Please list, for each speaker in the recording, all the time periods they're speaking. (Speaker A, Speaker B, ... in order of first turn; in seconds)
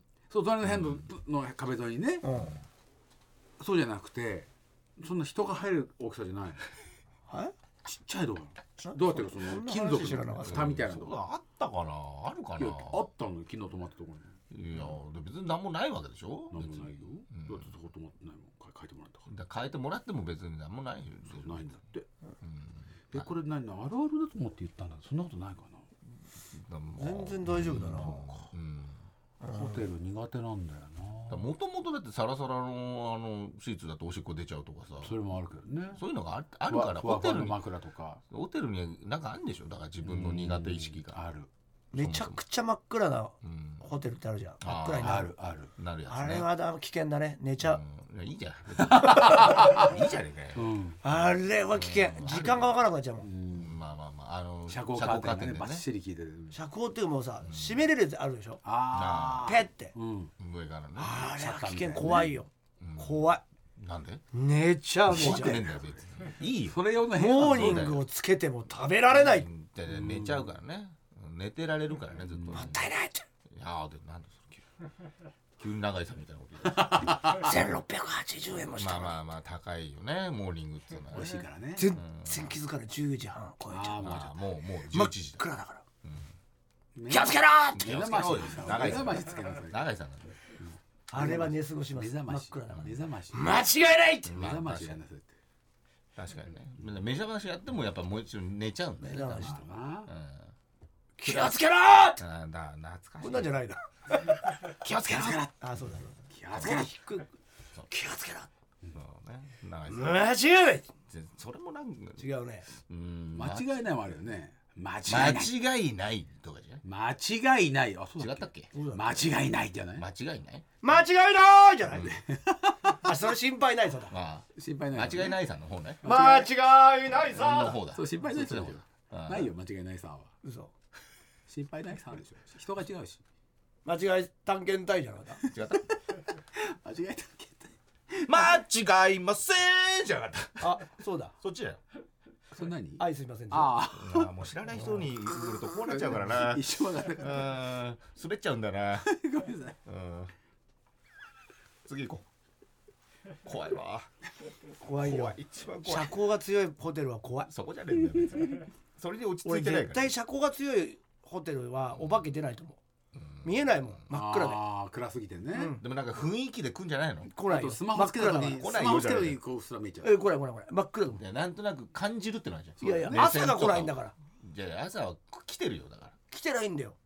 Speaker A: 0.3-2.2, 3.6-6.6, 7.8-11.2, 12.6-14.3, 16.5-19.3, 21.3-22.1, 23.1-25.9, 29.5-31.5, 35.0-36.0, 36.7-38.2, 40.0-41.5, 45.0-45.7, 48.8-49.9, 50.5-51.0, 53.2-53.8, 54.7-56.5, 58.6-60.3, 61.0-62.3, 65.1-65.8, 66.6-67.9, 69.9-70.5, 72.3-72.7, 76.7-77.4, 81.1-81.9, 83.7-84.3, 86.9-89.8, 90.6-93.6, 94.3-95.3, 99.2-100.1, 104.8-105.7, 106.3-106.9, 113.3-115.5, 116.8-120.0, 122.0-123.1, 124.5-125.4, 126.0-126.5, 127.9-130.3, 131.5-133.2, 135.4-138.3, 142.5-144.3, 145.4-147.5, 149.0-149.8, 164.1-165.7, 167.4-170.2, 172.8-173.3
Speaker B: 0.6-1.1, 10.4-13.0, 14.5-17.7, 19.3-21.6, 22.4-23.3, 26.5-29.0, 31.3-35.1, 35.9-37.6, 38.3-41.2, 41.9-42.4, 43.4-43.8, 44.6-45.2, 45.8-46.5, 47.6-50.7, 51.7-52.7, 53.5-55.8, 57.4-57.8, 58.9-59.5, 60.4-61.2, 62.8-64.2, 65.1-66.8, 67.4-68.0, 69.1-72.9, 73.5-74.6, 75.6-77.2, 78.7-82.5, 84.0-85.4, 86.0-86.3, 87.7-90.4, 94.2-95.0, 96.2-100.5, 101.2-101.6, 102.2-103.5, 108.9-110.3, 111.1-113.8, 115.0-116.8, 118.2-118.7, 120.0-120.7, 121.9-122.2, 124.1-126.0, 127.2-129.5, 135.5-135.9, 138.2-140.9, 141.4-141.8, 143.9-149.1, 149.8-150.3, 151.8-152.2, 153.4-154.1, 155.0-156.2, 157.5-160.1, 163.1-164.0, 165.8-167.3, 168.5-169.4, 171.1-176.2
Speaker C: 2.2-2.6, 7.3-7.5, 8.8-10.7, 27.0-28.4, 29.4-29.8, 41.9-45.4, 46.1-47.8, 49.4-49.7, 51.0-53.3, 56.5-58.6, 59.4-59.9, 61.0-63.4, 64.3-65.6, 67.1-69.5, 72.5-73.2, 77.3-79.2, 81.8-84.3, 84.9-85.8, 87.1-88.0, 91.1-94.3, 99.0-99.6, 101.2-102.2, 103.2-107.3, 107.9-108.5, 109.9-110.9, 112.2-112.7, 118.7-119.2, 120.8-122.1, 122.8-124.1, 126.0-127.8, 130.4-130.7, 133.8-135.4, 140.6-141.3, 143.0-143.8, 144.7-145.1, 154.8-157.5, 159.4-162.8, 163.4-164.6, 165.5-165.8, 167.3-168.7, 170.0-171.2, 172.8-174.1, 176.3-176.9